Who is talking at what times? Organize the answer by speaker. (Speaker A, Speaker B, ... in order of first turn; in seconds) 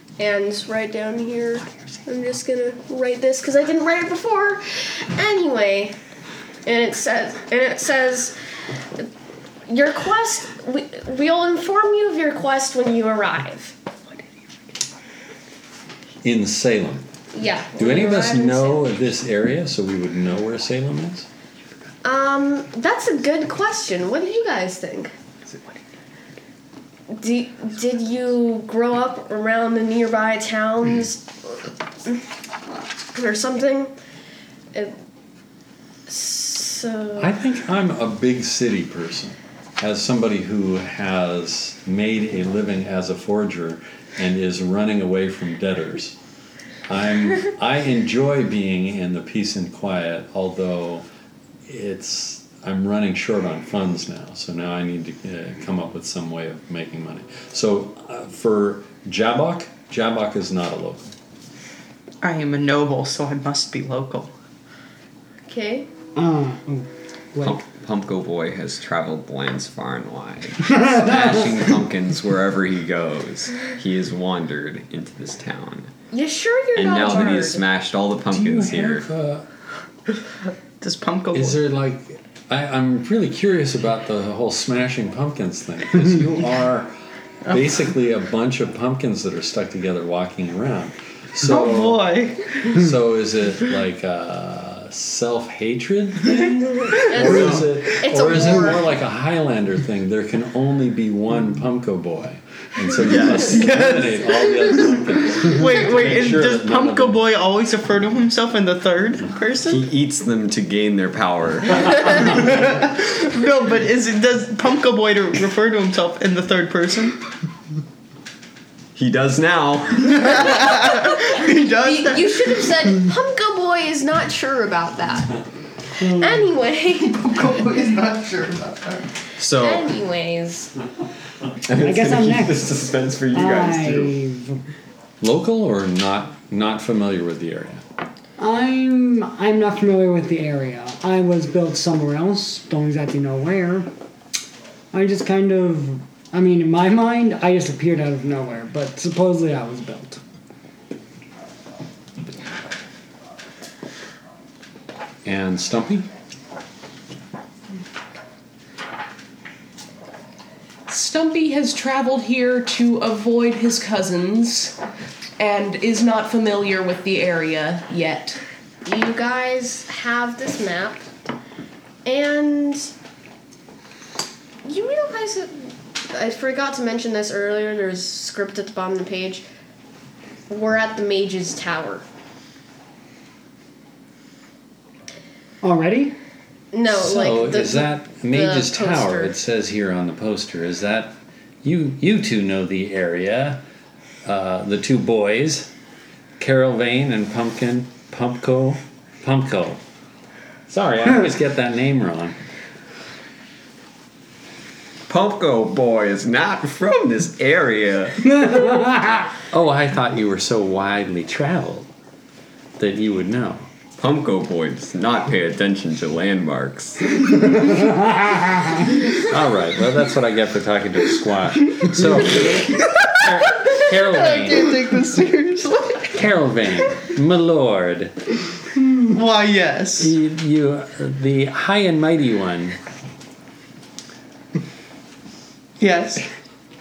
Speaker A: 0.2-6.0, 6.7-8.4, 9.7-13.8, 17.3-18.9, 22.0-25.1, 27.1-32.2, 33.1-33.9, 36.1-37.4, 65.5-65.9, 76.1-77.6, 96.8-98.9, 121.1-125.4, 126.0-127.4, 129.5-130.7, 168.8-171.1, 172.1-172.9, 174.6-179.4, 180.5-182.1, 186.7-189.3
Speaker B: 16.2-17.1, 17.8-21.3, 37.2-46.2, 46.9-51.0, 51.7-61.1, 78.3-79.5, 81.3-86.9, 87.5-107.2, 129.4-129.9, 135.2-137.8, 155.2-156.1, 186.9-193.6, 194.2-195.7, 196.4-199.8, 200.7-202.4, 209.5-211.9, 212.8-213.7, 219.2-224.9, 226.1-228.2, 230.0-232.8
Speaker C: 62.2-64.3, 80.8-81.6, 87.5-87.8, 91.4-92.8, 96.9-97.2, 103.2-104.5, 105.3-109.8, 112.3-117.2, 120.2-122.6, 127.1-129.1, 222.9-226.2, 229.0-230.2, 235.8-236.2
Speaker D: 66.2-67.6, 70.6-71.7, 126.0-126.5, 131.8-134.6, 138.4-143.9, 144.9-150.2, 185.6-186.2, 208.3-209.3, 217.7-218.8
Speaker E: 67.4-75.9, 76.8-79.0, 97.2-97.6, 103.0-103.7, 109.7-112.9, 119.0-120.7, 131.7-134.2, 205.1-208.7, 214.0-217.7
Speaker F: 160.9-164.8, 165.4-168.4